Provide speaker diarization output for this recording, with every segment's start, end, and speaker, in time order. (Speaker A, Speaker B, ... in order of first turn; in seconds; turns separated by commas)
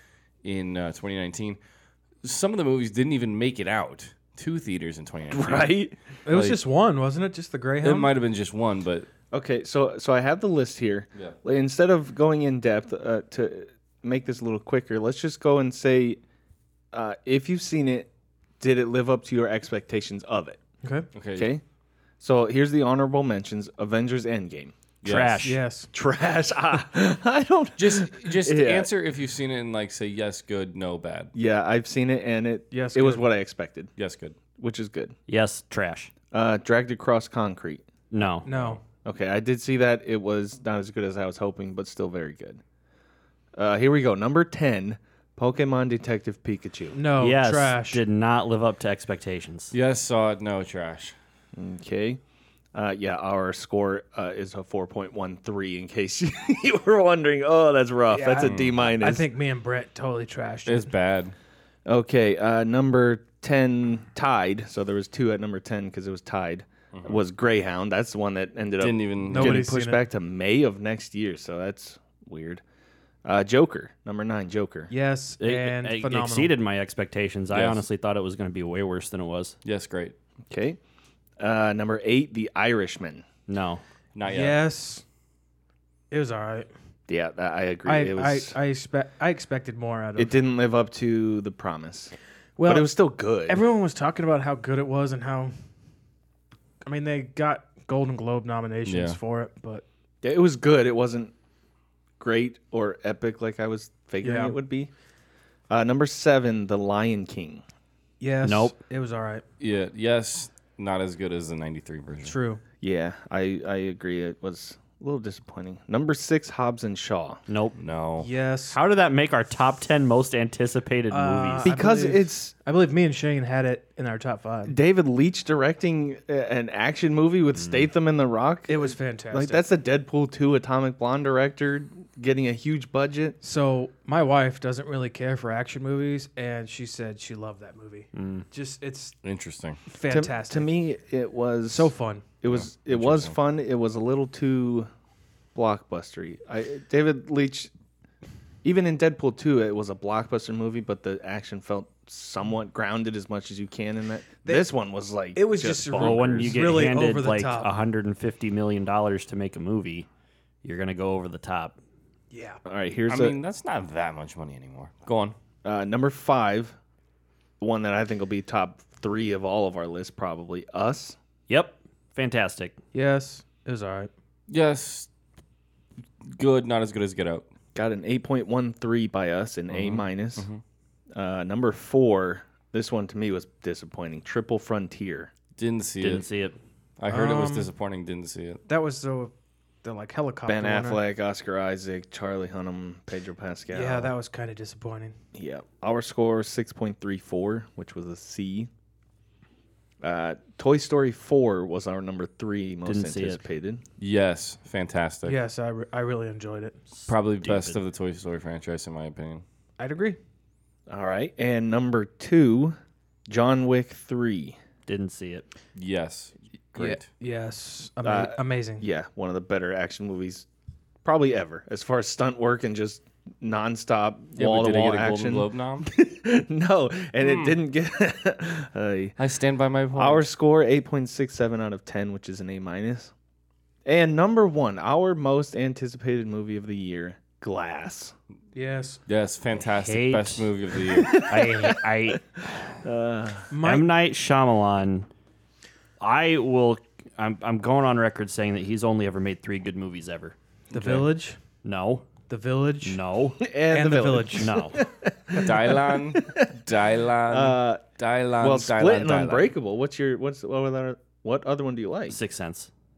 Speaker A: 0.4-1.6, Speaker A: 2.2-5.7, Speaker B: 5.3-6.0, Speaker C: 6.3-8.1, Speaker A: 6.3-6.6, Speaker A: 7.8-9.1, Speaker B: 9.3-16.2, Speaker B: 16.9-20.6, Speaker C: 20.8-21.1, Speaker A: 21.1-21.5, Speaker B: 21.4-21.6, Speaker B: 22.2-24.8, Speaker A: 25.0-25.5, Speaker D: 25.0-25.6, Speaker C: 25.4-25.9, Speaker B: 25.9-28.9, Speaker A: 27.8-31.3, Speaker B: 31.4-33.9, Speaker C: 32.7-33.2, Speaker A: 34.0-34.4, Speaker B: 34.6-35.1, Speaker D: 35.3-36.1, Speaker B: 36.3-37.9, Speaker D: 38.1-38.5, Speaker C: 38.4-38.8, Speaker B: 38.5-42.6, Speaker B: 43.5-47.0, Speaker C: 46.9-48.0, Speaker D: 47.2-49.7, Speaker A: 49.7-51.1, Speaker B: 51.5-52.2, Speaker B: 52.7-59.2, Speaker C: 58.1-60.9, Speaker A: 58.4-58.9, Speaker A: 60.7-61.4, Speaker B: 61.9-72.6, Speaker A: 66.9-67.2, Speaker A: 68.8-69.7, Speaker C: 69.3-70.0, Speaker B: 73.2-74.9, Speaker C: 74.9-76.5, Speaker D: 75.4-79.5, Speaker A: 77.5-77.8, Speaker A: 79.6-80.2, Speaker B: 80.5-80.8, Speaker B: 81.4-83.2, Speaker D: 83.5-83.8, Speaker A: 84.2-84.6, Speaker C: 84.3-85.0, Speaker C: 86.1-86.7, Speaker B: 87.1-88.6, Speaker C: 87.9-90.3, Speaker B: 90.2-93.6, Speaker C: 92.6-92.9, Speaker C: 93.5-95.5, Speaker C: 96.8-99.8, Speaker A: 98.8-99.2, Speaker B: 100.2-101.3, Speaker B: 102.2-104.9, Speaker C: 104.2-104.5, Speaker B: 105.7-107.6, Speaker C: 108.2-109.4, Speaker D: 108.4-108.8, Speaker A: 109.6-112.4, Speaker C: 112.2-112.6, Speaker B: 112.8-117.4, Speaker D: 117.5-117.8, Speaker A: 117.8-118.3, Speaker C: 118.2-118.8, Speaker D: 118.7-121.7, Speaker C: 121.1-124.8, Speaker B: 121.6-122.5, Speaker B: 124.7-133.4, Speaker C: 128.7-129.6, Speaker C: 133.4-139.2, Speaker D: 138.1-138.5, Speaker A: 139.2-139.8, Speaker C: 139.9-140.7, Speaker B: 140.1-144.9, Speaker C: 141.7-142.3, Speaker A: 142.5-143.3, Speaker B: 145.6-147.7, Speaker B: 148.6-156.7, Speaker C: 154.5-154.7, Speaker C: 155.3-157.7, Speaker D: 155.9-160.1, Speaker D: 160.6-161.8, Speaker C: 162.3-162.6, Speaker B: 162.7-163.4, Speaker A: 163.1-165.4, Speaker B: 165.6-166.8, Speaker B: 167.6-171.2, Speaker D: 171.5-172.8, Speaker C: 172.9-174.1, Speaker A: 174.5-175.1, Speaker A: 176.3-177.5, Speaker B: 177.8-180.5, Speaker A: 179.7-180.6, Speaker B: 181.2-185.3, Speaker A: 185.6-186.3, Speaker D: 186.0-186.6, Speaker A: 187.0-188.6, Speaker C: 187.1-187.7, Speaker C: 188.7-189.3, Speaker C: 189.8-191.0, Speaker B: 190.5-194.1, Speaker C: 193.7-195.2, Speaker B: 195.3-198.7, Speaker B: 200.0-203.8, Speaker D: 202.8-203.4, Speaker A: 204.0-205.4, Speaker C: 205.3-206.8, Speaker D: 206.9-207.8, Speaker A: 207.1-209.4, Speaker C: 209.8-210.2, Speaker B: 210.9-212.8, Speaker B: 213.3-214.6, Speaker D: 214.9-215.5, Speaker A: 215.8-217.1, Speaker C: 216.8-218.8, Speaker B: 218.0-220.5, Speaker B: 221.0-229.2, Speaker A: 224.4-225.9, Speaker A: 227.2-227.6, Speaker A: 229.2-230.2, Speaker B: 229.9-233.1, Speaker B: 233.8-238.1, Speaker C: 238.6-239.0, Speaker A: 239.1-241.2, Speaker D: 239.7-240.5, Speaker B: 240.9-242.2, Speaker D: 241.1-242.2, Speaker B: 242.8-243.5, Speaker C: 243.5-243.9, Speaker D: 243.6-245.1, Speaker D: 246.0-250.3, Speaker A: 250.7-251.1, Speaker C: 250.7-251.4, Speaker D: 251.6-252.1, Speaker C: 252.3-253.0, Speaker D: 252.8-253.4, Speaker B: 253.4-256.5, Speaker C: 253.7-254.5, Speaker D: 254.4-254.8, Speaker A: 255.4-259.5, Speaker B: 257.3-257.8, Speaker B: 258.4-262.2, Speaker D: 262.1-262.7